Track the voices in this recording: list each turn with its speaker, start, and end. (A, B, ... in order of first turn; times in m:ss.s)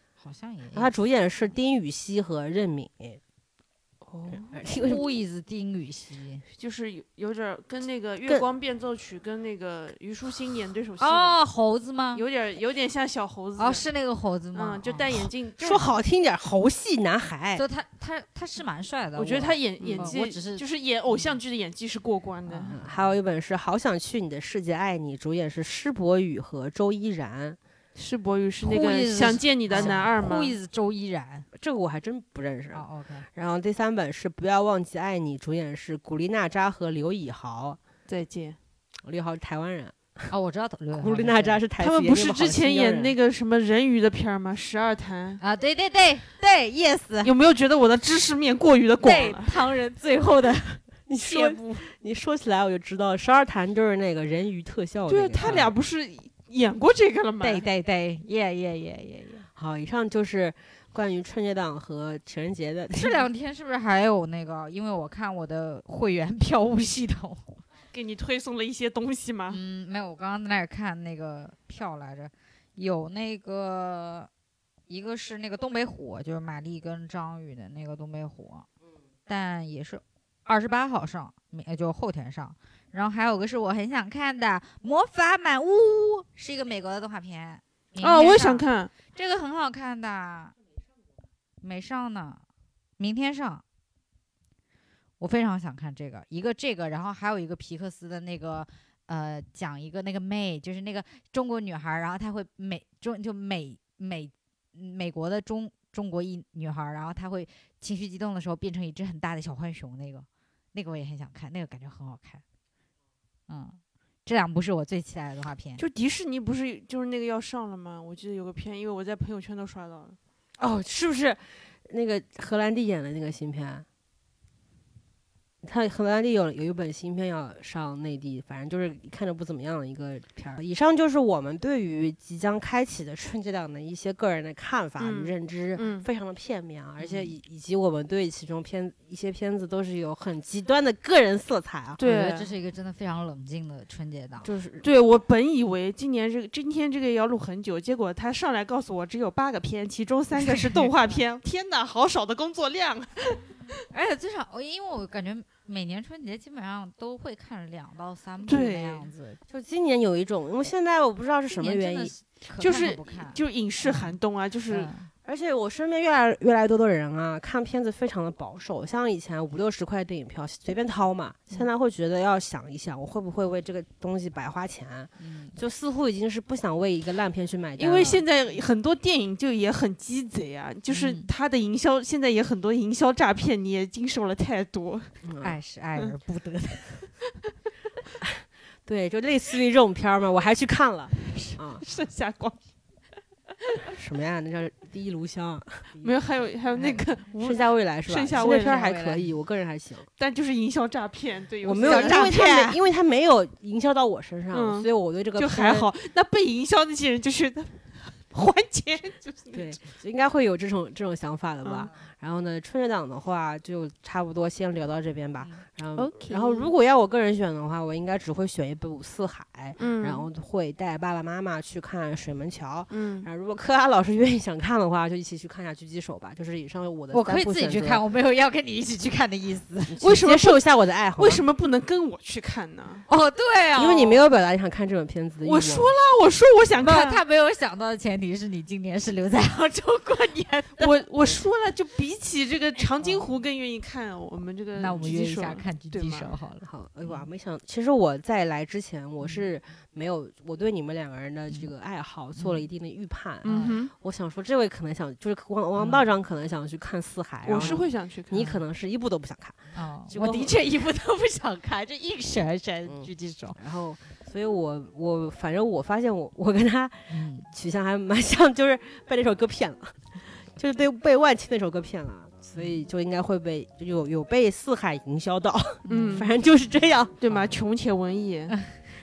0:00.2-0:01.0 A
0:00.7-0:03.2 B
0:04.1-0:04.5 C
0:04.3-0:05.1 B
0:04.6-0:06.4 A
0:06.6-0:11.4 C
0:11.0-0:12.2 A
0:12.1-0:13.9 C
0:13.6-0:15.1 A
0:14.5-0:15.9 C
0:15.6-0:17.6 B
0:17.6-0:21.4 A
0:19.2-0:22.7 C
0:19.8-0:20.1 B
0:22.5-0:23.2 A
0:22.7-0:27.6 B
0:28.0-0:30.6 C
0:28.6-0:31.5 A
0:28.7-0:29.1 B
0:29.7-0:30.0 B
0:31.5-0:37.8 B
0:32.7-0:33.3 A
0:38.1-0:38.6 C
0:39.0-0:40.3 B
0:40.3-0:41.6 A
0:40.9-0:43.2 B
0:41.8-0:45.4 C
0:45.4-0:47.3 A
0:47.2-0:49.6 C
0:49.0-0:51.8 A
0:51.1-0:55.7 B
0:55.1-0:57.6 C
0:57.4-0:59.5 A
0:59.6-1:03.2 B
1:02.9-1:07.4 A
1:07.9-1:09.6 C
1:09.5-1:14.3 A
1:14.9-1:18.7 A
1:19.3-1:30.6 A
1:28.0-1:28.9 C
1:31.6-1:32.4 A
1:33.0-1:33.6 A
1:35.2-1:52.4 A
1:53.5-1:55.8 A
1:55.8-2:00.2 C
2:00.6-2:03.9 B
2:05.6-2:22.0 B
2:15.0-2:16.1 C
2:17.0-2:17.3 A
2:22.0-2:22.5 C
2:22.0-2:24.5 A
2:24.4-2:24.8 B
2:24.8-2:33.7 C
2:30.8-2:31.2 A
2:33.9-2:39.4 A
2:38.5-2:39.1 C
2:39.5-2:42.1 B
2:41.5-2:44.2 A
2:42.6-2:44.9 C
2:44.7-2:45.1 A
2:45.2-2:58.2 B
2:55.2-2:55.6 A
2:57.8-3:05.1 C
3:00.9-3:01.3 A
3:05.2-3:05.6 B
3:05.4-3:07.1 A
3:08.2-3:11.8 B
3:11.8-3:12.6 C
3:13.9-3:16.1 B
3:16.0-3:19.0 C
3:16.8-3:17.1 A
3:17.4-3:20.1 B
3:18.4-3:19.3 A
3:20.2-3:22.5 C
3:21.6-3:25.9 B
3:21.8-3:22.8 A
3:24.5-3:29.8 C
3:29.5-3:48.0 B
3:31.6-3:31.9 C
3:36.0-3:36.7 C
3:39.8-3:40.3 C
3:42.9-3:43.3 C
3:47.1-3:50.0 A
3:49.9-3:51.4 B
3:50.0-3:50.6 C
3:51.2-3:53.1 C
3:53.1-3:54.2 A
3:53.8-3:55.9 B
3:55.4-3:57.2 C
3:56.8-4:01.4 A
4:00.8-4:06.4 C
4:03.0-4:03.3 A
4:04.8-4:07.3 A
4:06.6-4:20.6 B
4:12.4-4:12.7 A
4:13.4-4:13.9 C
4:13.5-4:13.8 A
4:15.8-4:16.0 A
4:17.4-4:18.5 C
4:17.6-4:18.6 A
4:19.7-4:23.6 A
4:22.9-4:37.2 B
4:27.1-4:27.5 A
4:32.6-4:32.8 A
4:35.9-4:36.3 A
4:35.9-4:36.3 C
4:37.2-4:38.6 C
4:37.3-4:37.6 A